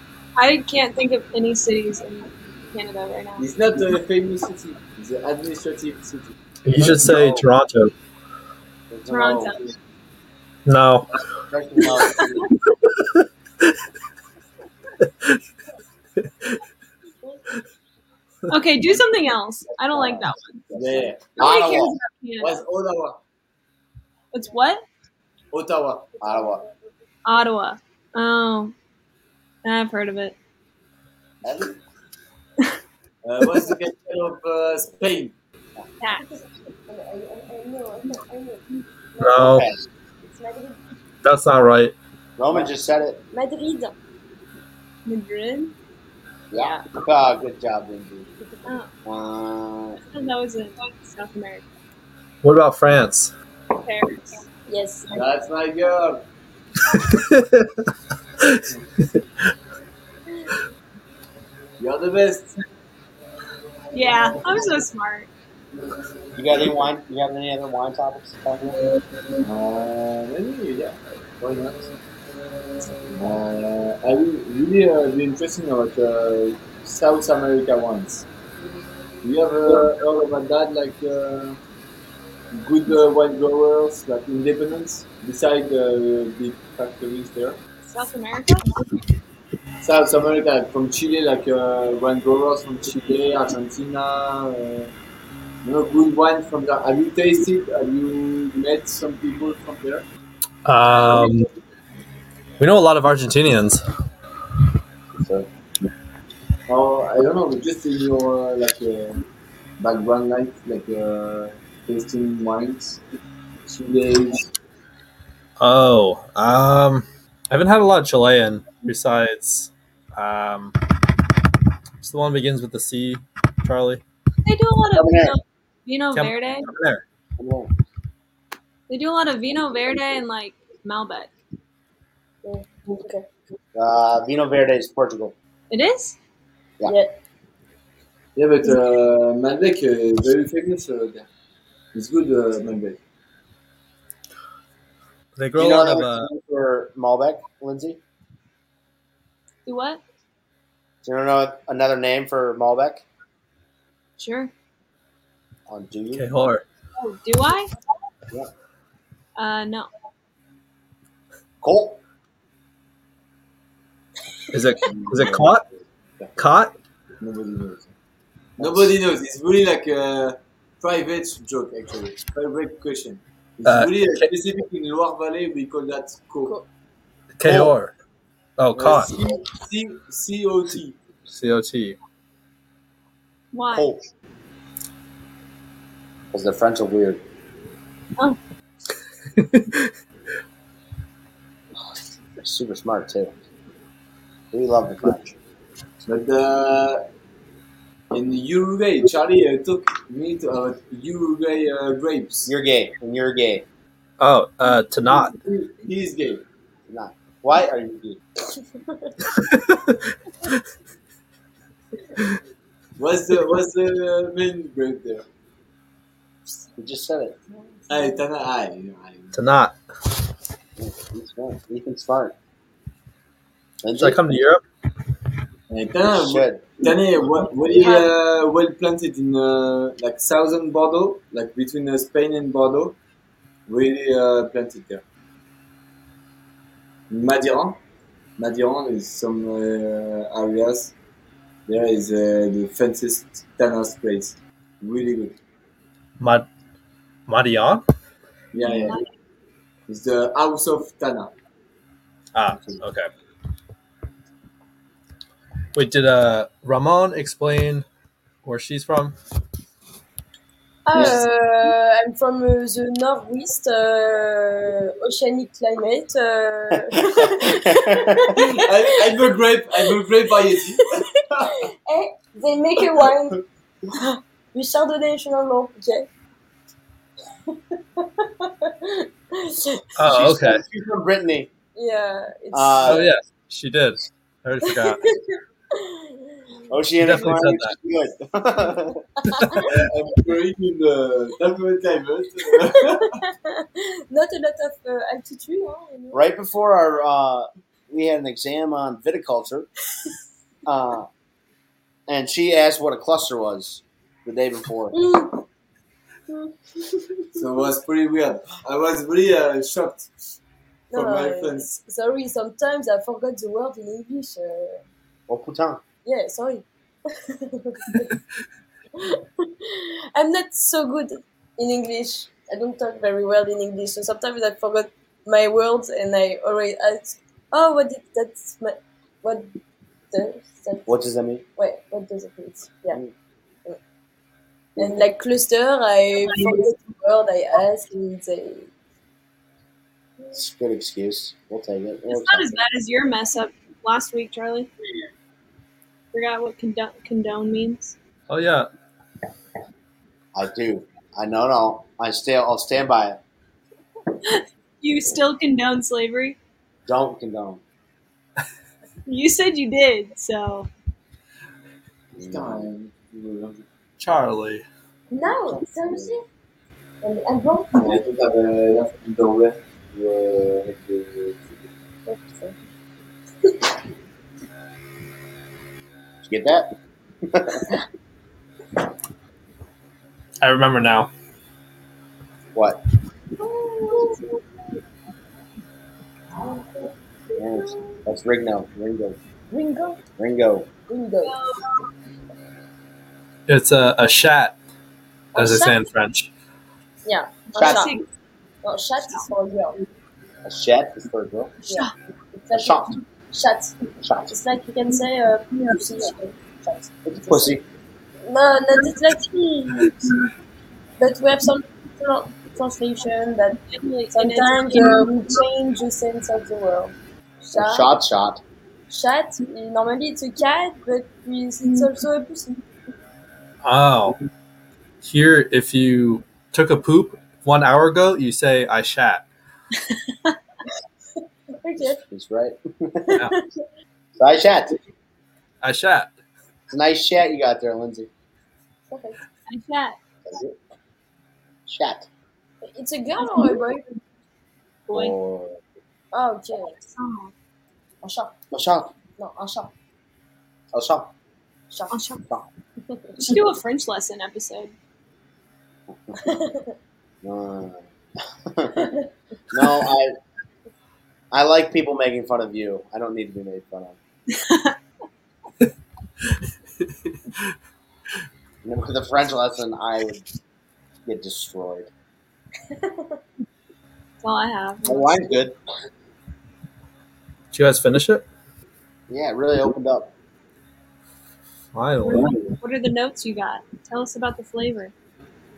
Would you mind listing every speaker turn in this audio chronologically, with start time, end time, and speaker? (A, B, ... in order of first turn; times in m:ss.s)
0:00.4-0:03.5 A
0:03.4-0:07.5 B
0:06.6-0:07.9 C
0:08.9-0:09.6 D
0:09.1-0:09.6 A
0:10.6-0:11.1 C
0:11.5-0:12.4 D
0:12.9-0:13.2 C
0:18.5-0:20.7 A
0:20.7-0:21.5 B
0:20.7-0:22.0 D
0:21.4-0:22.6 A
0:22.4-0:23.2 B
0:24.3-0:24.8 A
0:25.5-0:26.1 B
0:26.2-0:26.8 E
0:26.2-0:26.6 D
0:27.2-0:28.7 A
0:29.6-0:30.4 A
0:31.4-0:31.8 D
0:33.2-0:35.3 B
0:36.0-0:36.2 A
0:36.2-0:39.7 E
0:39.2-0:39.6 C
0:39.3-0:39.8 D
0:40.2-0:40.8 E
0:41.2-0:41.9 C
0:42.4-0:43.2 D
0:43.3-0:43.9 E
0:45.0-0:45.7 A
0:46.5-0:48.3 D
0:46.6-0:46.8 E
0:49.0-0:50.0 D
0:50.0-0:51.6 A
0:52.4-0:53.3 C
0:53.7-0:54.4 A
0:54.7-0:55.2 E
0:55.1-0:56.2 B
0:56.9-0:57.9 C
1:01.8-1:02.6 B
1:03.9-1:05.3 A
1:06.3-1:08.9 D
1:09.4-1:12.0 B
1:13.1-1:18.2 B
1:19.2-1:21.6 B
1:22.5-1:27.6 B
1:27.8-1:28.8 A
1:29.8-1:34.9 B
1:35.6-1:40.0 B
1:40.6-1:41.5 C
1:42.6-1:43.8 C
1:45.2-1:45.5 D
1:46.7-1:49.2 B
1:49.8-1:53.0 B
1:53.7-1:54.5 B
1:55.6-2:00.8 C
2:02.0-2:04.0 C
2:04.4-2:06.7 A
2:04.9-2:05.4 D
2:06.1-2:07.0 C
2:07.4-2:07.7 D
2:08.9-2:11.3 A
2:12.4-2:13.2 E
2:13.7-2:15.3 D
2:15.7-2:16.2 A
2:16.8-2:17.1 E
2:18.4-2:21.3 B
2:21.9-2:23.0 B
2:25.4-2:26.3 C
2:25.5-2:28.0 D
2:29.6-2:30.0 A
2:31.0-2:33.0 D
2:34.2-2:34.5 A
2:35.7-2:36.2 D
2:36.1-2:36.6 C
2:37.0-2:37.7 A
2:39.4-2:39.9 A
2:41.6-2:42.0 D
2:44.5-2:45.6 C
2:44.9-2:45.5 B
2:46.4-2:46.7 C
2:47.2-2:47.9 B
2:48.6-2:48.9 D
2:48.6-2:56.6 B
2:53.6-2:54.3 C
2:57.4-2:57.9 C
2:57.4-2:57.7 D
2:58.6-2:59.1 C
2:58.7-3:01.0 B
3:01.3-3:02.0 C
3:03.5-3:03.9 A
3:03.7-3:04.1 D
3:06.3-3:07.2 D
3:09.4-3:09.9 C
3:12.4-3:13.3 D
3:14.5-3:15.4 D
3:16.0-3:17.0 B
3:18.1-3:22.5 B
3:22.5-3:23.6 D
3:24.2-3:25.3 C
3:25.0-3:26.4 B
3:26.9-3:28.2 D
3:29.3-3:30.6 C
3:33.0-3:35.2 B
3:36.8-3:37.4 D
3:37.5-3:38.2 E
3:37.9-3:39.4 B
3:39.3-3:39.8 C
3:40.8-3:42.3 D
3:43.8-3:44.2 D
3:44.0-3:44.6 C
3:45.7-3:53.0 B
3:46.1-3:46.7 D
3:53.7-3:55.0 B
3:57.1-3:57.8 B
3:58.4-4:00.9 B
4:01.7-4:05.4 B
4:06.2-4:06.5 C
4:07.3-4:07.8 C
4:08.5-4:09.0 B
4:08.8-4:09.1 A
4:09.9-4:11.3 B
4:12.3-4:13.1 C
4:15.7-4:17.8 C
4:18.4-4:19.1 C
4:20.8-4:29.1 E
4:20.9-4:21.2 D
4:26.9-4:28.4 D
4:28.4-4:31.5 B
4:30.5-4:36.1 E
4:37.5-4:39.9 E
4:40.0-4:40.6 C
4:40.0-4:41.5 D
4:41.7-4:43.0 E
4:42.5-4:43.1 D
4:42.8-4:45.1 C
4:44.6-4:46.7 E
4:46.7-4:49.0 D
4:47.0-4:47.7 C
4:49.2-4:49.8 E
4:49.4-4:49.6 C
4:49.6-4:53.2 B
4:52.7-4:56.2 E
4:56.1-4:59.7 D
5:00.6-5:01.1 D
5:02.1-5:05.0 D
5:04.9-5:05.4 E
5:06.3-5:07.4 E
5:07.3-5:10.1 B
5:10.9-5:14.8 E
5:10.9-5:11.7 B
5:15.3-5:15.8 D
5:16.0-5:16.6 E
5:17.3-5:18.1 E
5:19.0-5:29.5 E
5:30.1-5:30.9 E
5:30.9-5:31.4 D
5:31.6-5:33.0 E
5:34.8-5:35.0 D
5:34.8-5:38.7 E
5:36.3-5:36.7 A
5:40.3-5:42.6 D
5:42.1-5:44.7 A
5:46.1-5:47.9 A
5:48.3-5:48.7 C
5:50.3-5:53.2 D
5:54.2-5:56.4 A
5:56.8-5:57.6 D
5:59.1-6:00.7 A
6:02.2-6:02.7 D
6:02.2-6:03.6 B
6:04.0-6:04.6 C
6:05.1-6:06.2 E
6:05.5-6:06.1 B
6:07.0-6:08.0 E
6:07.7-6:11.5 B
6:12.1-6:12.6 E
6:13.4-6:13.7 E
6:16.2-6:16.7 D
6:17.3-6:17.8 D
6:20.4-6:21.1 C
6:22.5-6:22.8 D
6:23.4-6:24.2 A
6:23.9-6:24.2 E
6:26.4-6:26.9 E
6:27.4-6:29.2 D
6:29.5-6:30.0 E
6:30.2-6:30.7 D
6:30.9-6:31.4 E
6:31.2-6:31.8 A
6:33.5-6:34.6 C
6:35.3-6:36.3 C
6:35.4-6:35.7 E
6:37.0-6:37.9 E
6:37.5-6:38.0 A
6:37.6-6:37.9 D
6:38.6-6:39.8 E
6:40.4-6:41.5 D
6:41.7-6:41.9 A
6:41.7-6:43.8 E
6:42.5-6:42.9 D
6:44.0-6:44.4 D
6:44.3-6:47.6 E
6:47.0-6:47.6 D
6:48.2-6:49.9 E
6:51.0-6:53.6 E
6:53.7-6:55.1 A
6:54.1-6:57.9 E
6:57.5-6:58.4 D
6:58.9-7:02.6 E
7:03.6-7:04.2 C
7:05.0-7:09.2 C
7:09.9-7:10.4 A
7:11.6-7:12.0 E
7:12.1-7:13.2 D
7:13.0-7:13.6 E
7:14.2-7:14.8 D
7:15.6-7:16.1 C
7:16.7-7:18.1 D
7:18.9-7:19.2 E
7:19.5-7:20.0 A
7:20.2-7:20.6 D
7:21.7-7:22.1 D
7:22.6-7:24.0 E
7:23.2-7:23.6 A
7:24.9-7:25.2 A
7:24.9-7:25.6 D
7:26.1-7:26.8 E
7:26.6-7:27.3 A
7:28.0-7:28.3 E
7:28.5-7:28.9 D
7:29.2-7:29.7 E
7:30.7-7:31.1 D
7:31.7-7:32.0 E
7:31.9-7:32.2 A
7:32.9-7:33.2 E
7:33.2-7:34.7 A
7:35.9-7:36.2 D
7:36.2-7:36.7 E
7:37.2-7:38.9 D
7:38.8-7:39.0 E
7:39.5-7:40.2 D
7:41.3-7:44.0 D
7:44.3-7:44.8 A
7:48.6-7:50.2 D
7:51.0-7:51.9 D
7:52.7-7:53.2 E
7:54.2-7:55.3 A
7:54.8-7:55.6 D
7:57.5-7:58.2 C
7:59.1-8:00.1 D
8:01.7-8:02.4 C
8:02.0-8:04.9 A